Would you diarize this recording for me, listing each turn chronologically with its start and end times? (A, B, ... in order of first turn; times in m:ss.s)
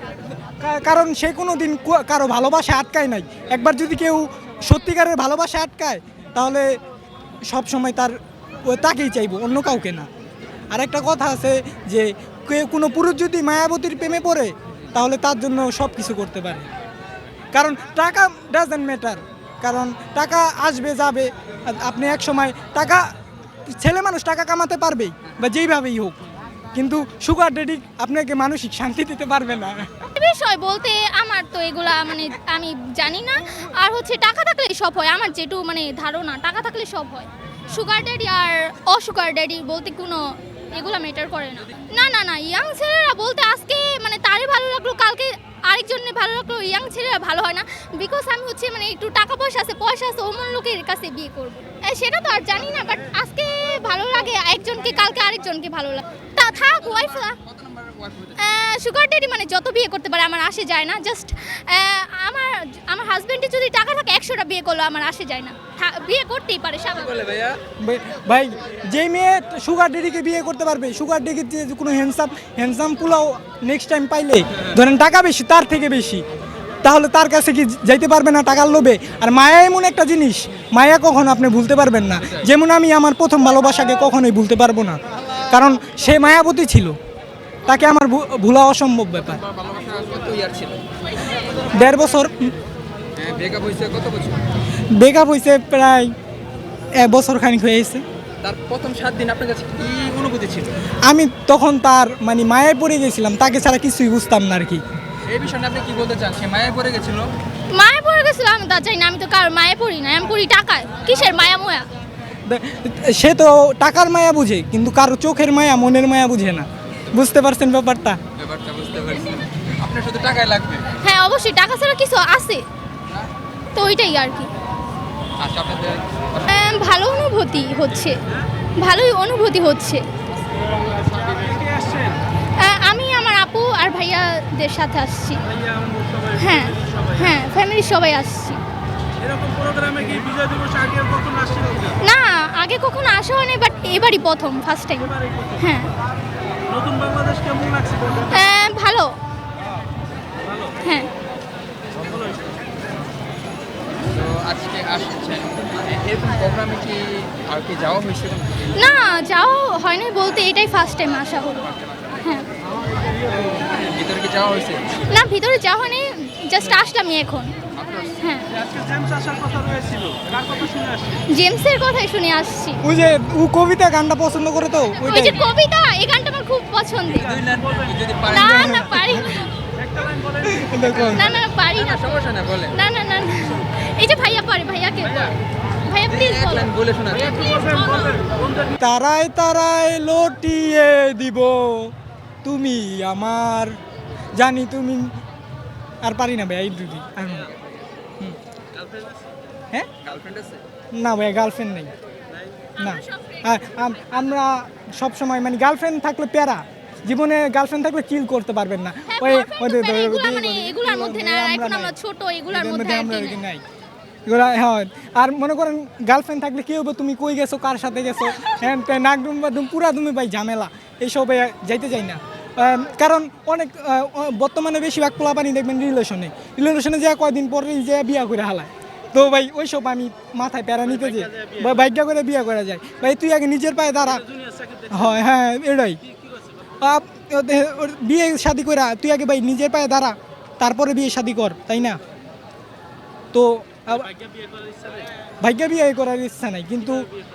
0:00.6-0:06.8 A
0:07.4-0:10.1 A
0:10.7-0:16.7 A
0:17.5-0:23.1 A
0:23.7-0:26.2 A
0:26.7-0:29.9 A
0:30.0-0:57.4 B
0:56.5-0:58.5 C
0:58.4-1:07.2 B
1:07.0-1:07.6 C
1:07.8-1:16.2 A
1:16.8-1:27.0 A
1:27.6-1:29.4 A
1:29.2-1:30.8 C
1:31.7-1:32.5 A
1:33.2-1:34.4 C
1:34.9-1:36.1 A
1:37.0-1:38.0 A
1:38.4-1:40.7 C
1:41.0-1:44.8 A
1:45.3-1:47.3 C
1:47.7-1:51.8 B
1:52.4-1:58.2 A
1:58.4-2:00.9 C
2:01.0-2:02.6 B
2:03.7-2:04.5 B
2:05.4-2:06.8 C
2:06.5-2:08.2 B
2:08.8-2:10.0 B
2:10.8-2:12.1 C
2:12.6-2:15.4 B
2:16.3-2:18.6 B
2:19.3-2:21.7 D
2:22.0-2:25.9 B
2:26.7-2:28.0 D
2:28.3-2:29.1 B
2:30.8-2:31.1 B
2:34.1-2:38.9 C
2:38.7-2:41.7 B
2:42.2-2:42.4 B
2:43.2-2:44.8 C
2:45.1-2:47.5 B
2:47.8-2:48.2 C
2:48.2-2:48.6 B
2:48.8-2:51.2 D
2:51.3-2:52.8 B
2:52.8-2:55.4 A
2:55.0-2:57.4 B
2:57.2-2:58.8 C
2:58.3-2:59.5 B
2:58.3-2:59.3 A
3:00.4-3:01.3 A
3:01.0-3:02.8 C
3:01.1-3:05.3 B
3:05.9-3:08.4 B
3:06.0-3:07.6 C
3:08.8-3:11.9 A
3:12.4-3:13.7 A
3:14.3-3:15.1 A
3:16.0-3:17.5 A
3:17.4-3:17.8 C
3:20.0-3:20.6 C
3:20.9-3:21.9 A
3:22.8-3:23.8 B
3:22.8-3:31.9 A
3:29.1-3:33.4 B
3:32.5-3:33.6 A
3:34.2-3:54.2 A
3:54.9-3:56.0 A
3:56.8-4:02.0 A
4:03.3-4:04.1 A
4:05.4-4:07.0 A